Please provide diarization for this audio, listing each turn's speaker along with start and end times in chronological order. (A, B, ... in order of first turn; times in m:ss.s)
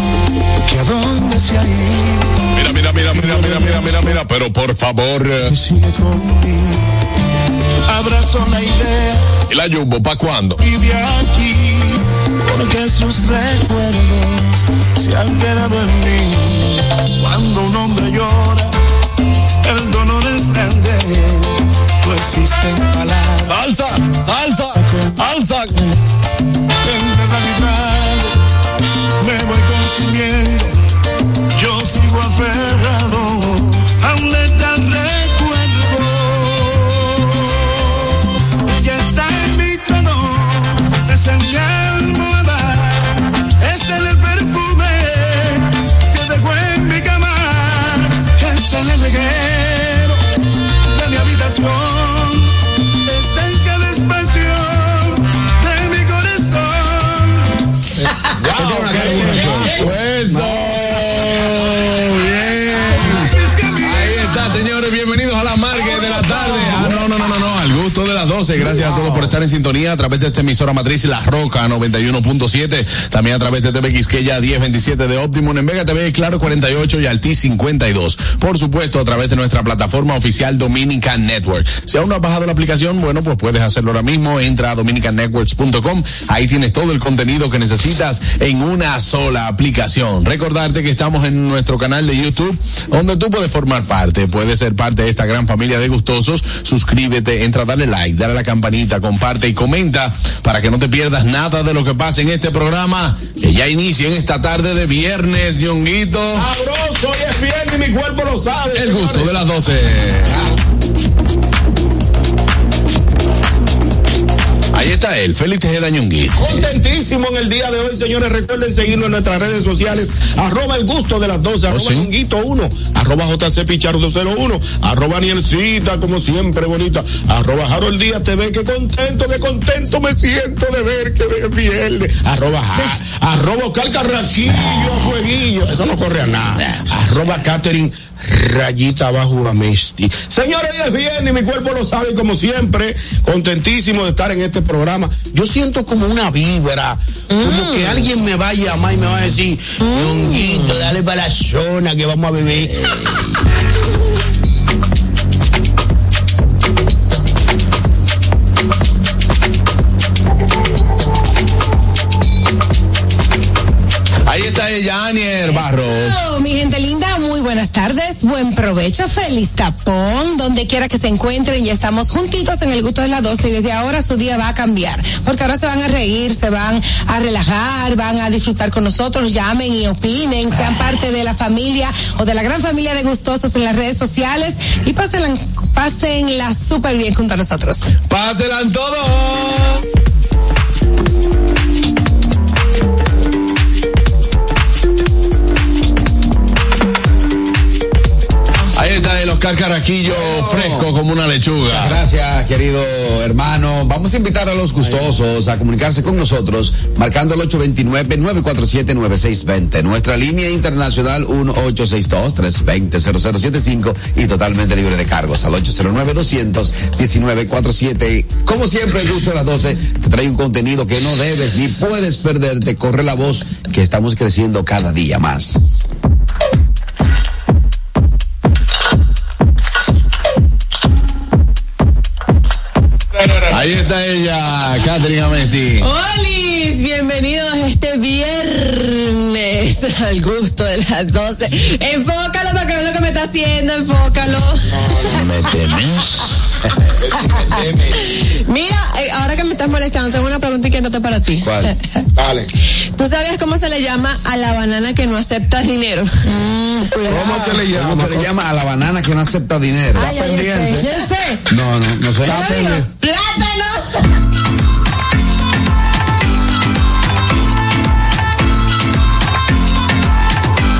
0:00.6-0:04.2 A
0:02.5-0:05.5 B
0:05.4-0:06.8 A
0:07.8-0:09.3 A
0:09.5-0:10.6 B
0:10.6-0:18.7 A
0:19.6-0:25.7 A
0:26.8-0:28.3 A
0:29.2-0:30.8 A
0:31.5-0:50.2 A
0:50.9-0:57.5 A
0:58.4-1:00.6 C
0:58.4-0:59.9 D
0:59.2-1:03.3 B
1:02.9-1:04.7 A
1:03.8-1:46.5 B
1:05.7-1:07.4 A
1:46.3-1:49.3 C
1:48.7-1:50.4 B
1:54.7-1:56.6 B
1:56.4-2:32.8 C
2:01.7-2:02.1 B
2:29.9-2:30.7 E
2:44.2-2:46.2 B
2:45.5-3:07.8 F
3:08.1-3:09.8 B
3:18.7-3:22.0 B
3:20.0-3:20.9 D
3:21.7-3:45.8 D
3:53.3-3:55.9 B
3:55.8-4:05.5 E
4:04.7-4:05.1 C
4:05.1-4:06.0 B
4:07.2-4:11.7 E
4:11.4-4:11.7 D
4:12.1-4:12.5 C
4:13.0-4:16.1 E
4:16.2-4:17.6 F
4:17.0-4:18.3 C
4:17.1-4:20.2 D
4:20.0-4:21.4 F
4:20.0-4:20.8 C
4:21.5-4:22.8 D
4:22.2-4:22.9 F
4:22.9-4:23.9 E